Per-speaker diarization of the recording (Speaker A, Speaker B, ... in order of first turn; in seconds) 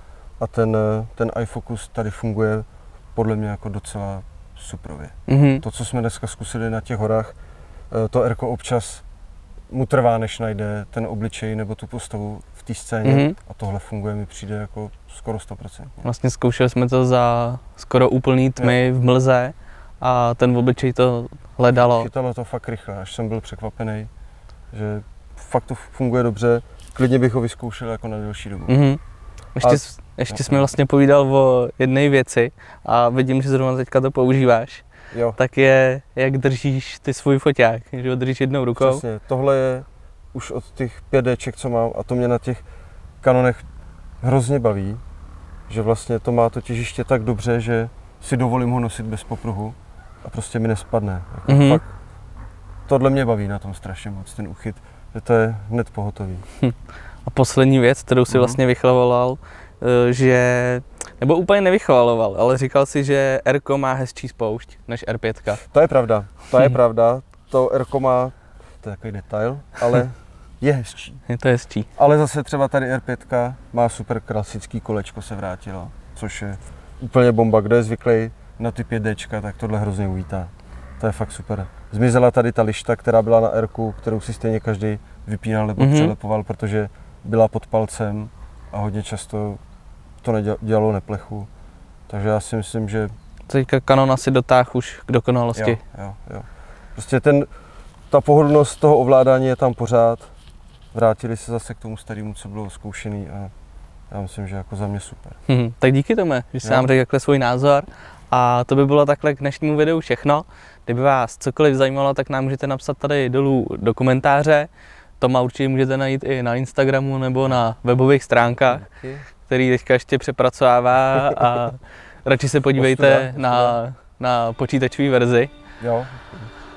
Speaker A: 0.4-7.4, 7.9-9.0, 9.7-16.0, 21.7-24.1, 24.7-28.8, 29.6-30.7, 35.1-35.4, 38.8-42.6, 43.2-43.6, 44.2-45.0, 45.7-52.0, 52.9-56.5, 58.3-58.6, 65.6-71.2, 72.0-89.6, 90.2-91.5, 92.1-93.1, 95.5-97.5, 98.1-100.3, 100.9-103.5, 104.1-105.4, 106.6-106.9, 118.6-119.3, 122.8-123.8, 125.8-126.5
Speaker B: 5.3-5.6, 13.0-13.4, 16.0-22.1, 28.7-29.0, 29.6-34.8, 35.4-39.0, 51.5-51.8, 57.2-65.6, 71.3-71.9, 85.8-86.2, 93.5-95.8, 105.5-118.8, 119.5-125.5